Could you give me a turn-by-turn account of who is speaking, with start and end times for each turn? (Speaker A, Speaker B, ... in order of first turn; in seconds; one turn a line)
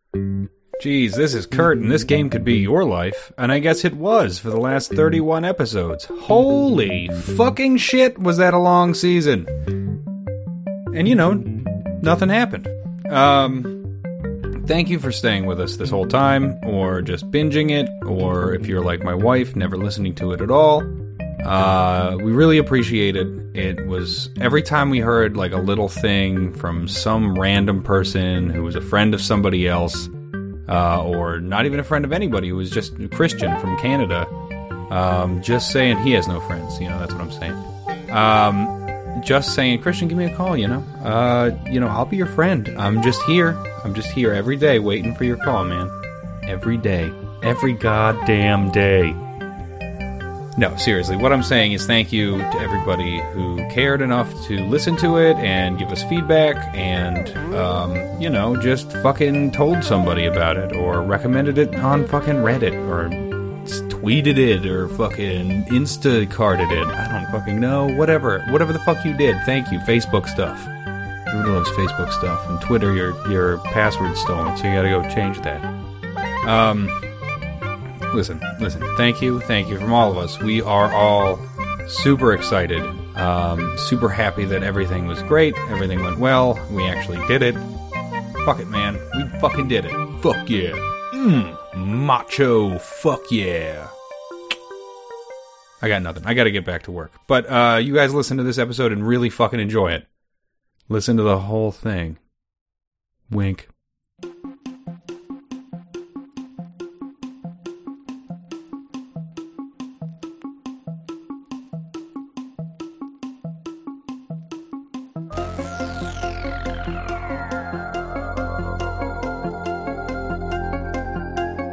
Speaker A: 0.8-9.5
Speaker A: 10.9-13.9
Speaker A: 14.6-20.9
Speaker A: 21.4-30.1
Speaker A: 30.7-34.3
Speaker A: 34.9-45.9
Speaker A: 46.5-49.2
Speaker A: 50.6-70.7
Speaker A: 71.3-75.7
Speaker A: 76.4-77.0
Speaker A: 78.1-87.7
Speaker A: 88.4-93.9
Speaker A: 95.8-100.1
Speaker A: 100.9-102.2
Speaker A: 103.3-103.7